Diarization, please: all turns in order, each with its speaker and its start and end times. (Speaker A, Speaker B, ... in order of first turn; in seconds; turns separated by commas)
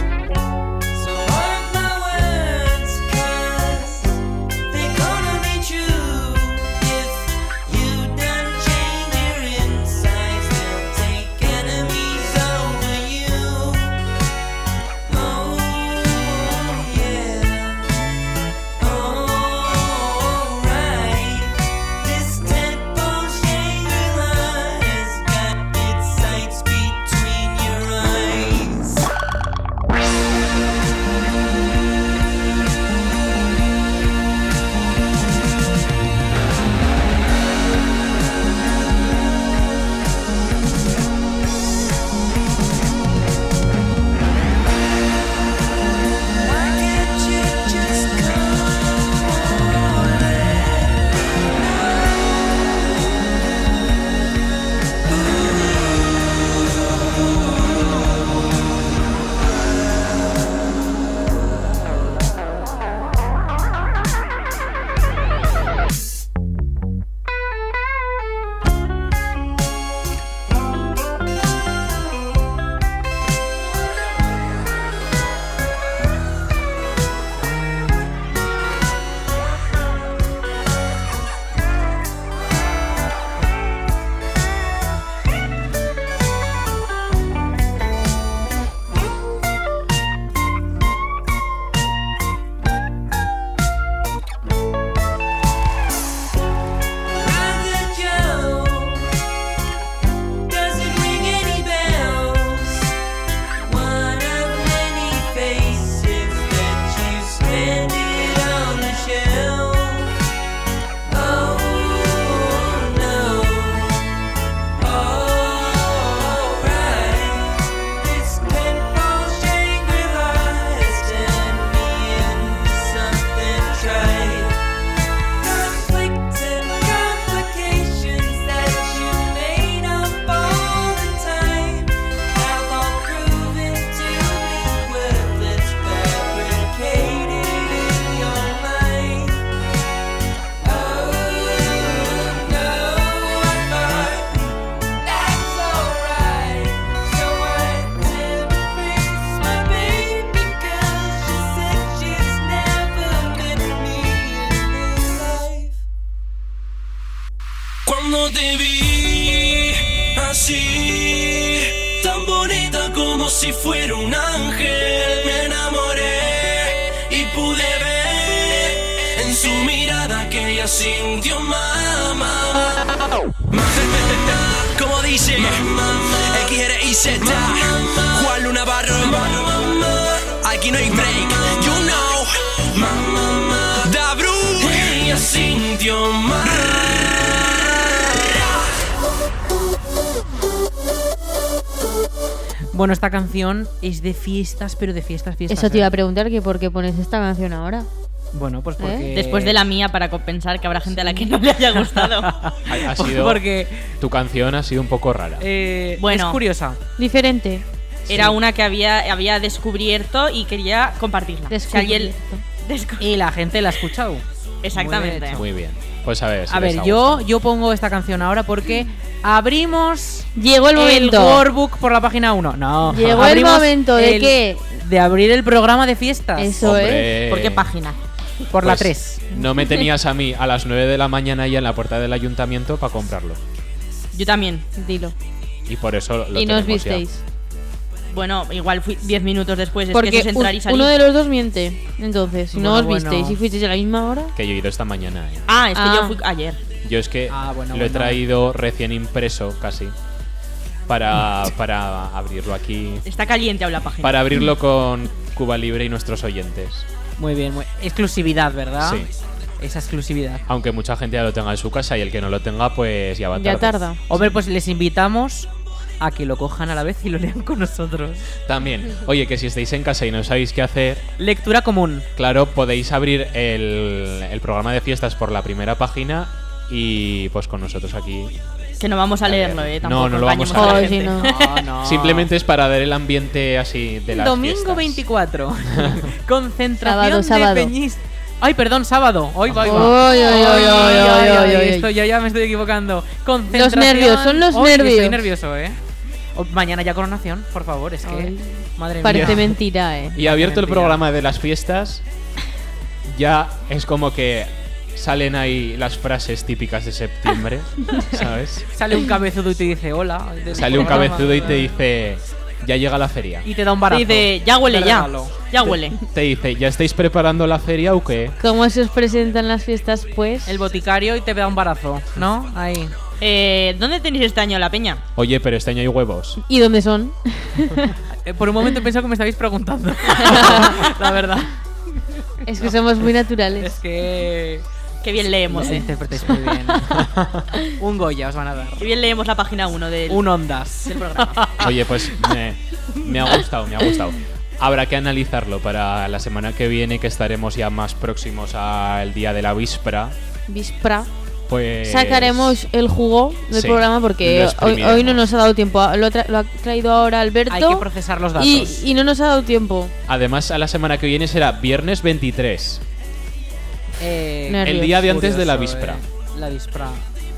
Speaker A: 0.9-14.0, Speaker A: 15.1-17.9, Speaker A: 18.8-29.0, Speaker A: 46.4-51.9, Speaker A: 55.1-55.7, Speaker A: 97.2-99.1, Speaker A: 100.5-102.9, Speaker A: 103.6-110.1, Speaker A: 111.1-114.2, Speaker A: 114.8-124.6, Speaker A: 125.4-139.4, Speaker A: 140.6-144.4, Speaker A: 145.0-155.8, Speaker B: 157.9-188.4, Speaker C: 192.7-195.9, Speaker D: 195.5-197.9, Speaker C: 198.3-199.6, Speaker D: 198.8-199.1, Speaker E: 199.1-202.4, Speaker C: 201.0-203.9, Speaker F: 202.7-203.4, Speaker F: 204.0-205.5, Speaker C: 205.4-206.8, Speaker E: 206.0-206.4, Speaker D: 207.0-207.6, Speaker F: 208.1-208.3, Speaker E: 208.1-213.1, Speaker D: 211.5-212.4, Speaker C: 213.0-215.4, Speaker E: 214.6-215.4, Speaker F: 215.3-217.3, Speaker C: 216.5-226.6, Speaker D: 220.4-221.4, Speaker D: 222.9-224.6, Speaker D: 226.4-227.2, Speaker F: 226.6-227.7, Speaker E: 227.3-228.0, Speaker C: 228.5-229.2, Speaker F: 228.6-233.4, Speaker D: 229.4-229.8, Speaker E: 234.1-234.7, Speaker D: 234.7-235.1, Speaker F: 235.7-237.0, Speaker D: 236.3-237.2, Speaker E: 238.1-241.0, Speaker D: 239.9-244.3, Speaker C: 242.5-243.4, Speaker F: 244.3-245.5, Speaker E: 245.5-246.6, Speaker D: 245.8-246.2, Speaker F: 246.8-249.9, Speaker C: 247.3-248.2, Speaker F: 250.9-253.1, Speaker E: 253.1-254.2, Speaker F: 254.0-256.9, Speaker C: 257.2-259.1, Speaker F: 258.8-259.1, Speaker C: 259.6-260.4, Speaker F: 260.5-264.4, Speaker D: 263.3-264.0, Speaker C: 264.1-265.5, Speaker C: 266.0-268.2, Speaker F: 268.5-271.0, Speaker C: 271.2-272.1, Speaker F: 272.1-278.3, Speaker E: 278.8-281.4, Speaker F: 279.2-281.1, Speaker D: 280.5-281.3, Speaker C: 281.2-282.3, Speaker F: 281.8-285.0, Speaker C: 284.1-295.8, Speaker F: 285.8-286.0, Speaker D: 286.8-287.7, Speaker D: 289.6-291.9, Speaker E: 290.1-291.4, Speaker D: 293.5-295.2, Speaker C: 296.3-299.5, Speaker D: 298.0-300.2, Speaker F: 299.0-299.6, Speaker F: 300.1-302.0, Speaker C: 300.2-301.0, Speaker F: 303.1-308.7, Speaker C: 308.7-311.7, Speaker F: 310.5-313.5, Speaker C: 313.4-315.4, Speaker E: 313.9-316.0, Speaker F: 315.6-318.4, Speaker D: 318.4-320.6, Speaker C: 320.4-322.9, Speaker E: 323.2-325.0, Speaker F: 325.1-326.4, Speaker D: 326.4-328.0, Speaker C: 328.1-334.6, Speaker E: 330.2-331.2, Speaker D: 330.2-330.7, Speaker D: 332.4-333.7, Speaker E: 335.0-335.9, Speaker C: 335.5-337.1, Speaker F: 336.1-337.4, Speaker C: 337.7-338.9, Speaker E: 338.8-340.3, Speaker C: 340.1-342.3, Speaker E: 340.8-341.5, Speaker F: 341.6-350.1, Speaker C: 343.0-343.4, Speaker D: 350.5-351.1, Speaker F: 351.5-352.6, Speaker D: 351.8-357.9, Speaker F: 353.5-355.3, Speaker C: 357.5-358.8, Speaker D: 358.4-359.9, Speaker F: 360.1-362.8, Speaker C: 364.0-367.1, Speaker D: 364.5-365.0, Speaker F: 364.6-366.0